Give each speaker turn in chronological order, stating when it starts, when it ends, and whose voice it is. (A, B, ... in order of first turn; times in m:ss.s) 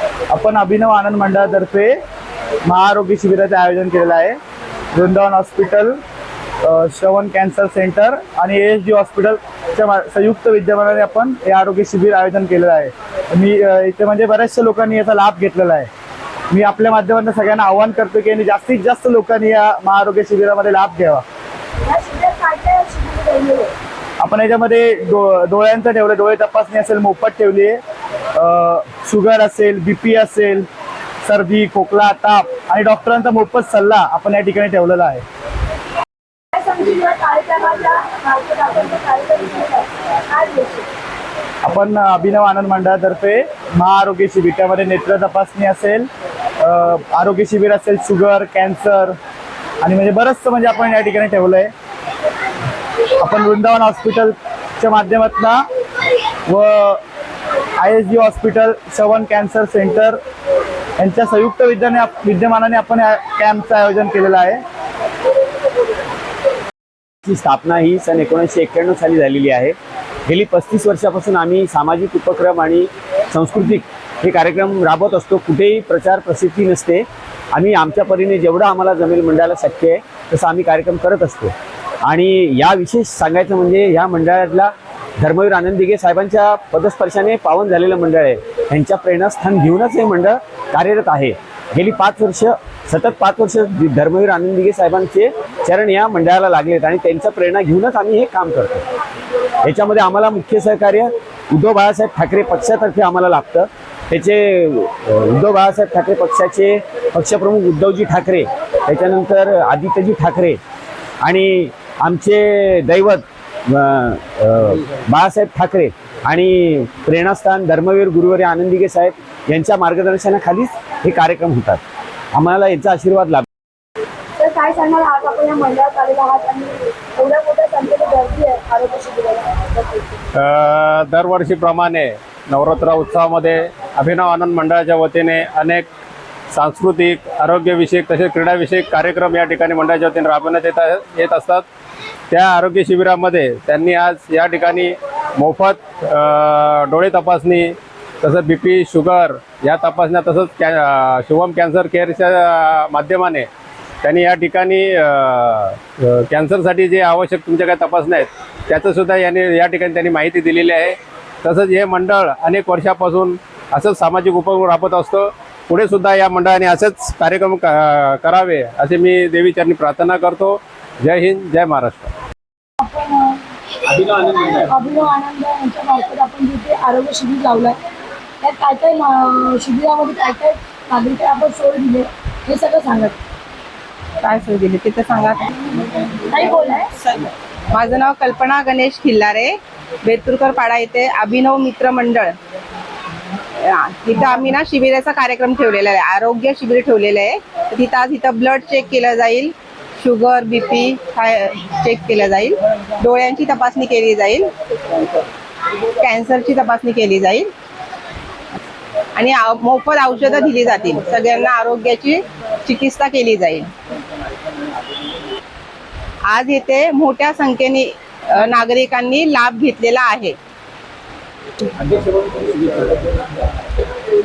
0:00.3-0:01.9 A
0:02.7-0:04.4 A
0:04.9-0:06.0 A
0:06.6-0:15.9 A
0:16.5-0:21.2 A
0:21.8-0:23.7 B
0:24.2-0:27.8 A
0:28.4-0:30.7 A
0:31.2-0:35.2 A
0:36.5-0:40.9 B
0:41.6-0:46.1 A
0:46.6-0:49.2 A
0:49.8-0:51.7 A
0:53.2-0:55.6 A
0:56.5-0:57.0 A
0:57.8-1:00.2 A
1:01.0-1:04.6 A
1:07.2-1:09.7 C
1:10.3-1:21.5 C
1:22.0-1:38.8 C
1:39.6-1:50.6 C
1:51.2-2:01.8 C
2:02.3-2:03.4 C
2:04.4-2:10.0 B
2:10.3-2:15.9 D
2:16.5-2:21.6 D
2:22.3-2:33.5 D
2:34.0-2:52.1 D
2:52.8-2:53.4 B
2:53.9-2:54.4 C
2:54.1-2:57.8 B
2:58.4-3:03.2 B
3:04.2-3:06.1 E
3:06.3-3:06.9 B
3:07.1-3:12.3 E
3:13.6-3:24.5 E
3:26.0-3:27.5 E
3:29.2-3:33.6 E
3:36.3-3:40.4 E
3:41.8-3:42.9 C